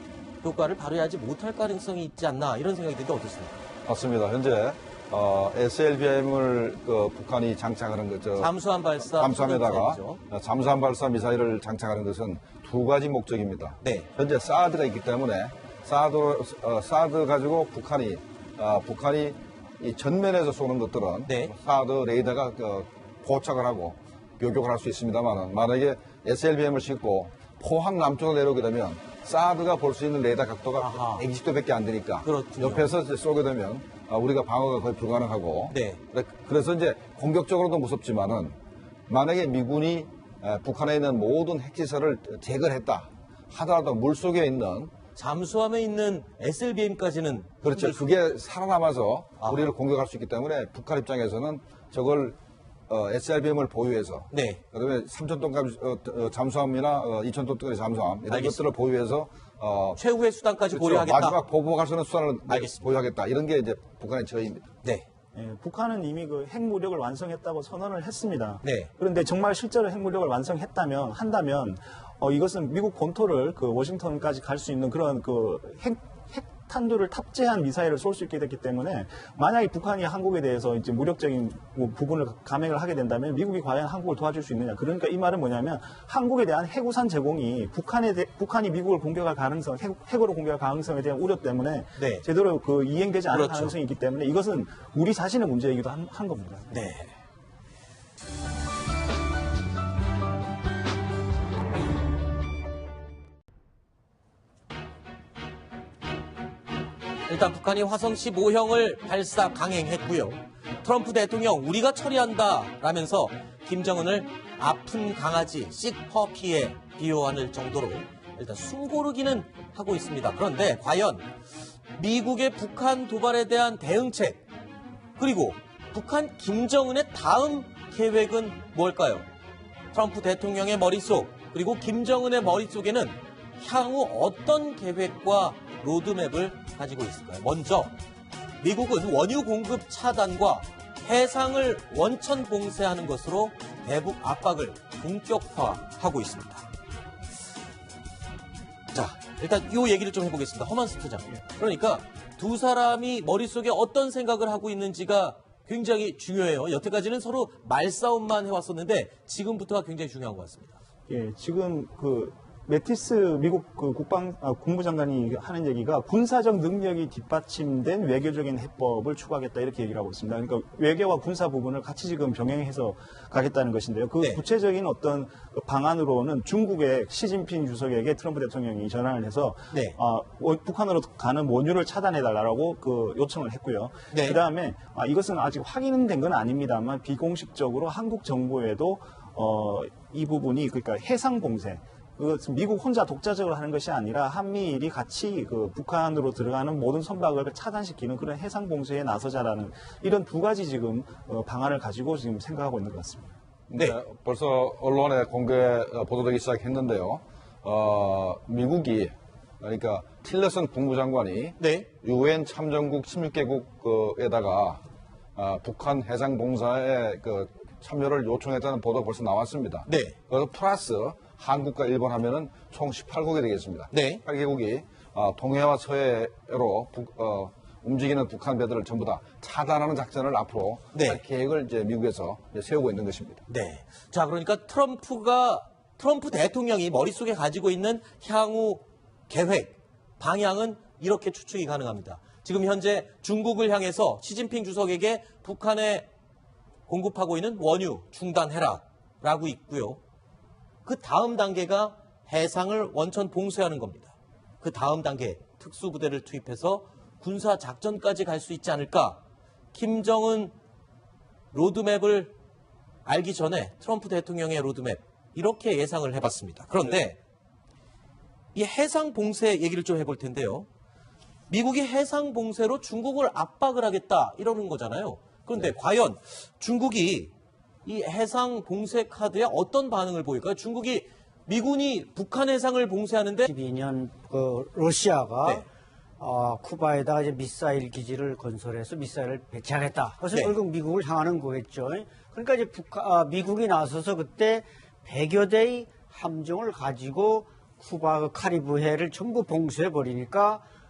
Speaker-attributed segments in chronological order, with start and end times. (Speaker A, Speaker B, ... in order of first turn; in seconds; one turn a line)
Speaker A: 0.4-3.6
Speaker B: 3.9-38.6
Speaker A: 8.4-10.2
Speaker A: 13.8-14.1
Speaker A: 21.3-21.5
Speaker A: 30.8-31.2
Speaker A: 32.2-32.9
Speaker A: 35.7-36.0
Speaker B: 39.1-44.9
Speaker A: 45.2-48.0
Speaker B: 47.6-52.4
Speaker A: 49.4-49.7
Speaker B: 52.9-60.0
Speaker A: 54.3-54.6
Speaker A: 58.3-58.7
Speaker A: 60.0-61.4
Speaker B: 60.7-64.7
Speaker A: 62.5-62.9
Speaker C: 65.3-96.8
Speaker A: 68.6-68.9
Speaker A: 92.0-92.3
Speaker A: 93.3-93.8
Speaker A: 96.7-97.2
Speaker A: 107.3-121.3
Speaker A: 122.0-124.4
Speaker A: 125.2-129.3
Speaker A: 129.9-137.9
Speaker A: 138.6-146.7
Speaker A: 148.9-160.8
Speaker C: 161.1-203.3
Speaker A: 179.7-180.0
Speaker A: 184.1-184.4
Speaker B: 203.7-214.8
Speaker A: 211.6-211.9
Speaker B: 215.4-233.4
Speaker A: 219.9-220.2
Speaker A: 223.9-224.2
Speaker A: 230.9-231.2
Speaker A: 233.5-246.1
Speaker A: 246.9-250.0
Speaker A: 250.8-259.2
Speaker A: 259.7-260.5
Speaker A: 261.5-262.3
Speaker A: 263.1-267.2
Speaker A: 268.6-270.7
Speaker A: 271.5-277.3
Speaker A: 277.9-283.5
Speaker D: 283.4-285.7
Speaker D: 286.2-300.6